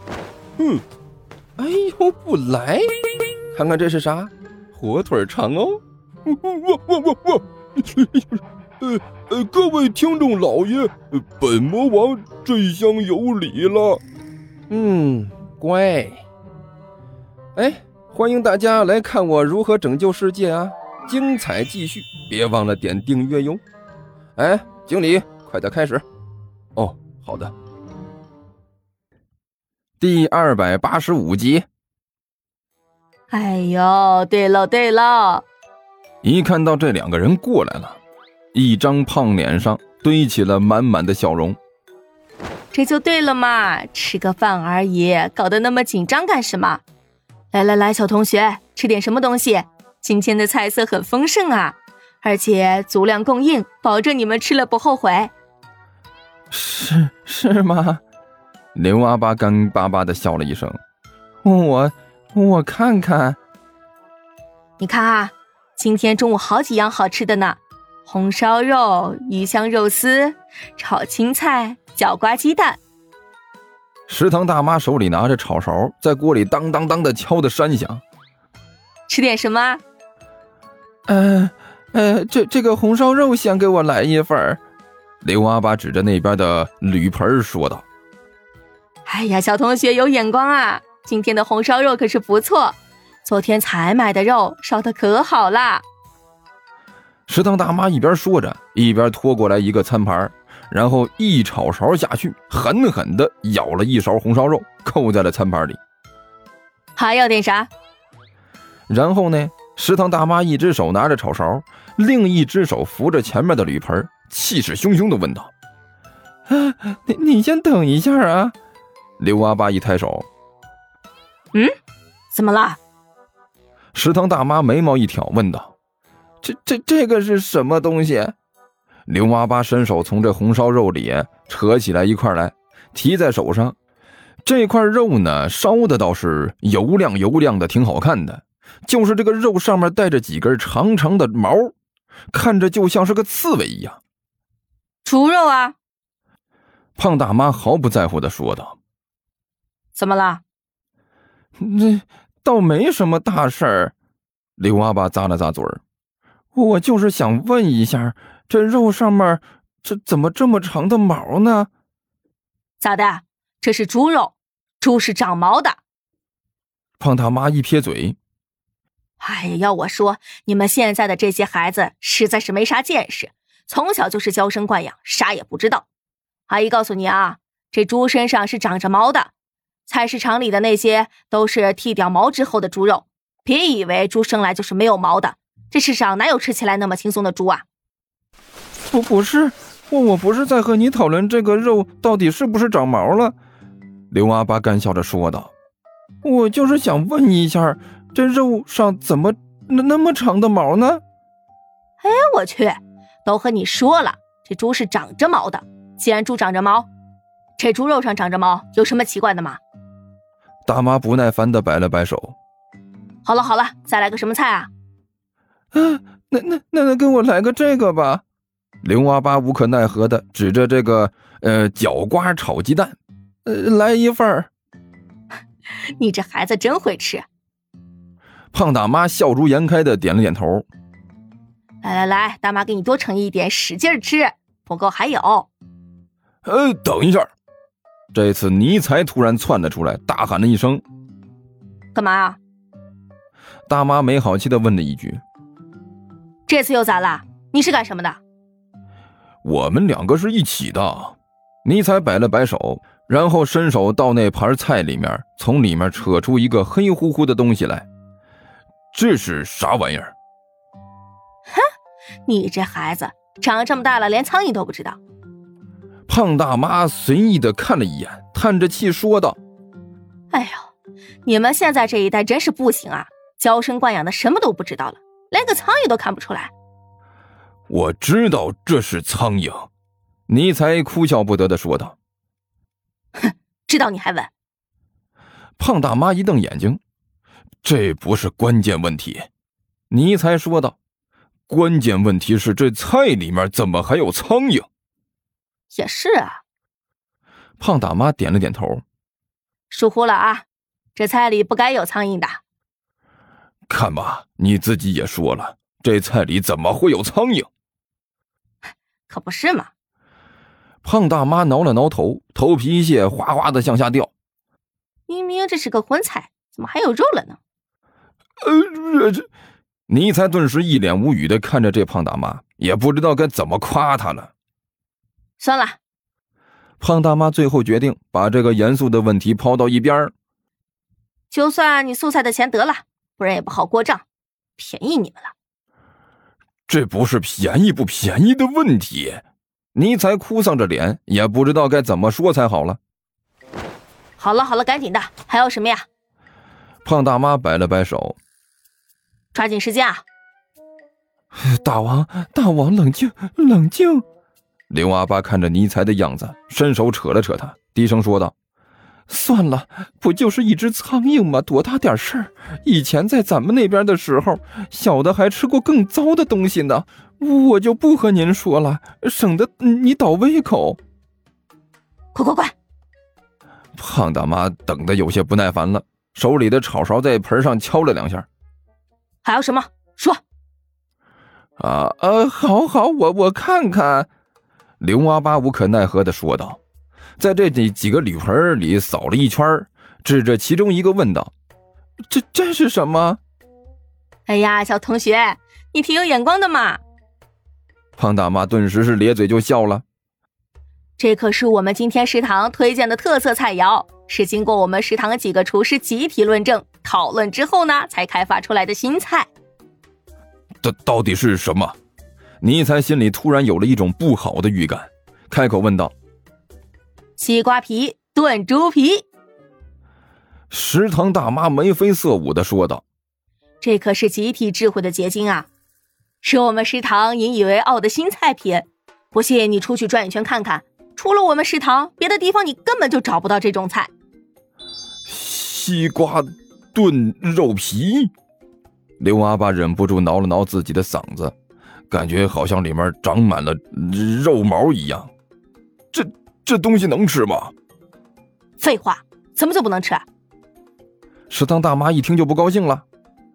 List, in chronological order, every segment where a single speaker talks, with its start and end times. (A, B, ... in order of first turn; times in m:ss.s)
0:00.6-0:00.8 A
0:01.6-0:14.0 A
0:14.7-0:16.2 A
0:17.6-0:23.6 A
0:24.4-0:26.0 A
0:26.8-0:27.5 A
0:30.0-0:31.6 A
0:33.3-0:35.4 B
0:36.2-0:38.0 A
0:38.5-0:41.6 A
0:42.7-0:46.8 B
0:47.5-0:55.3 B
0:56.5-0:58.0 A
0:58.7-1:00.8 A
1:01.4-1:03.4 A
1:04.8-1:12.8 B
1:14.1-1:18.0 A
1:19.1-1:19.8 B
1:21.1-1:24.6 A
1:25.2-1:27.8 A
1:29.0-1:35.8 B
1:37.3-1:45.8 A
1:47.0-1:47.7 B
1:48.9-1:55.5 A
1:56.5-1:58.5 A
1:59.2-2:00.3 A
2:02.3-2:02.8 B
2:03.9-2:05.7 A
2:06.4-2:08.3 A
2:09.1-2:13.8 A
2:14.4-2:21.7 A
2:22.3-2:24.0 A
2:25.0-2:25.7 B
2:27.0-2:28.8 A
2:30.0-2:30.4 B
2:31.6-2:33.9 A
2:34.6-2:35.8 A
2:36.5-2:41.7 A
2:42.8-2:45.8 B
2:47.0-2:48.2 A
2:49.2-2:55.8 B
2:56.5-2:59.3 B
2:59.9-3:07.6 B
3:08.8-3:13.4 A
3:14.1-3:15.5 A
3:16.2-3:21.0 A
3:22.0-3:26.9 B
3:27.6-3:29.6 B
3:30.6-3:32.4 A
3:33.2-3:34.7 B
3:35.7-3:38.2 A
3:38.8-3:44.5 A
3:46.0-3:47.2 B
3:48.5-3:50.7 A
3:51.8-3:55.5 B
3:56.4-3:57.3 A
3:58.1-4:00.8 A
4:01.9-4:02.4 B
4:03.7-4:05.2 A
4:06.5-4:08.2 B
4:09.4-4:17.9 A
4:18.9-4:20.1 A
4:22.2-4:25.0 B
4:26.1-4:29.4 A
4:30.3-4:30.7 B
4:31.2-4:36.5 B
4:37.7-4:39.7 A
4:40.3-4:42.0 A
4:43.2-4:44.3 B
4:45.6-4:46.8 A
4:47.6-4:49.3 A
4:49.9-4:50.8 A
4:51.5-4:54.7 A
4:55.7-4:56.4 B
4:57.6-4:58.8 A
4:59.7-5:00.4 B
5:01.0-5:02.4 B
5:03.7-5:07.5 A
5:09.1-5:09.7 B
5:10.8-5:14.1 A
5:15.1-5:17.4 B
5:18.4-5:19.3 A
5:19.9-5:24.3 A
5:25.4-5:25.8 B
5:26.8-5:30.1 A
5:31.3-5:34.0 B
5:34.6-5:35.3 B
5:36.7-5:39.2 A
5:39.7-5:42.8 A
5:44.2-5:45.8 B
5:46.8-5:48.2 A
5:49.3-5:50.0 B
5:51.3-5:54.0 A
5:54.7-5:58.3 A
5:59.1-6:10.8 A
6:12.1-6:12.5 B
6:13.8-6:18.3 A
6:19.2-6:20.2 B
6:21.6-6:24.1 A
6:24.8-6:26.6 A
6:27.2-6:31.3 A
6:32.1-6:33.2 A
6:34.3-6:36.8 B
6:38.0-6:39.8 A
6:41.0-6:49.3 B
6:50.6-6:51.8 A
6:52.4-6:55.9 A
6:57.2-6:59.0 B
7:00.5-7:02.8 A
7:03.6-7:05.5 B
7:06.2-7:13.9 B
7:15.1-7:18.1 A
7:19.0-7:21.3 A
7:21.9-7:25.1 A
7:25.9-7:27.5 A
7:28.6-7:30.0 B
7:31.3-7:32.8 A